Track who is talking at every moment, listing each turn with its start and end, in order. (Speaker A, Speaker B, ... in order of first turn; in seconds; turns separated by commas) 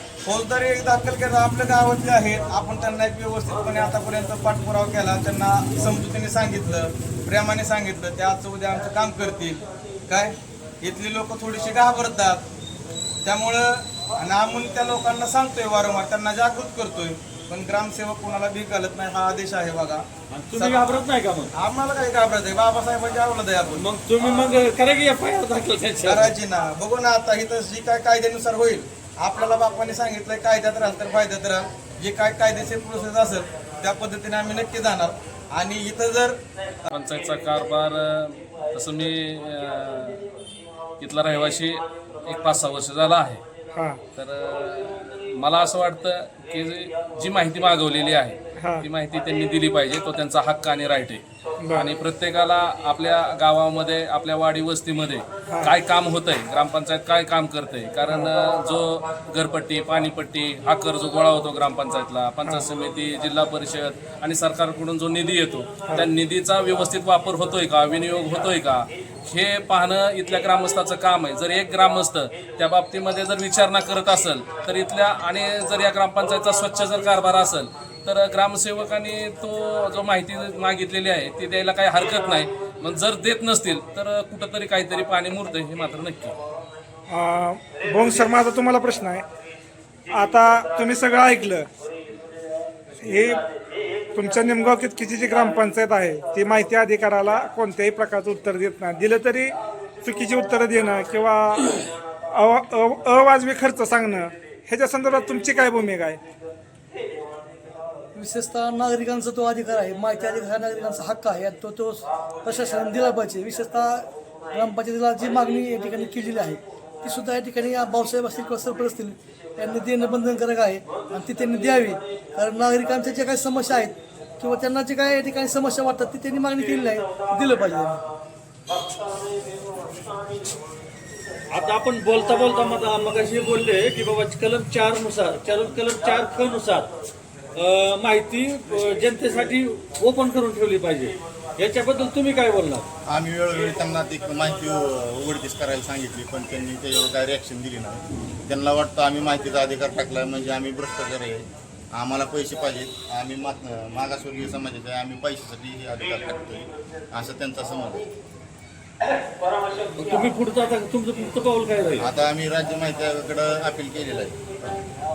Speaker A: 0.2-12.4, Speaker A: 13.2-21.0, Speaker B: 20.3-21.5, Speaker A: 21.5-23.9, Speaker B: 23.7-26.3, Speaker A: 26.0-36.9, Speaker C: 36.9-40.2, Speaker C: 41.0-43.4, Speaker D: 43.7-44.0, Speaker C: 44.1-51.2, Speaker D: 48.6-48.9, Speaker D: 51.6-51.9, Speaker C: 51.7-86.3, Speaker D: 87.1-89.2, Speaker D: 90.1-91.7, Speaker D: 93.0-93.5, Speaker D: 94.1-106.2, Speaker E: 108.1-128.0, Speaker B: 131.5-136.9, Speaker B: 137.5-142.8, Speaker F: 143.1-158.1, Speaker B: 159.9-162.1, Speaker F: 162.0-164.8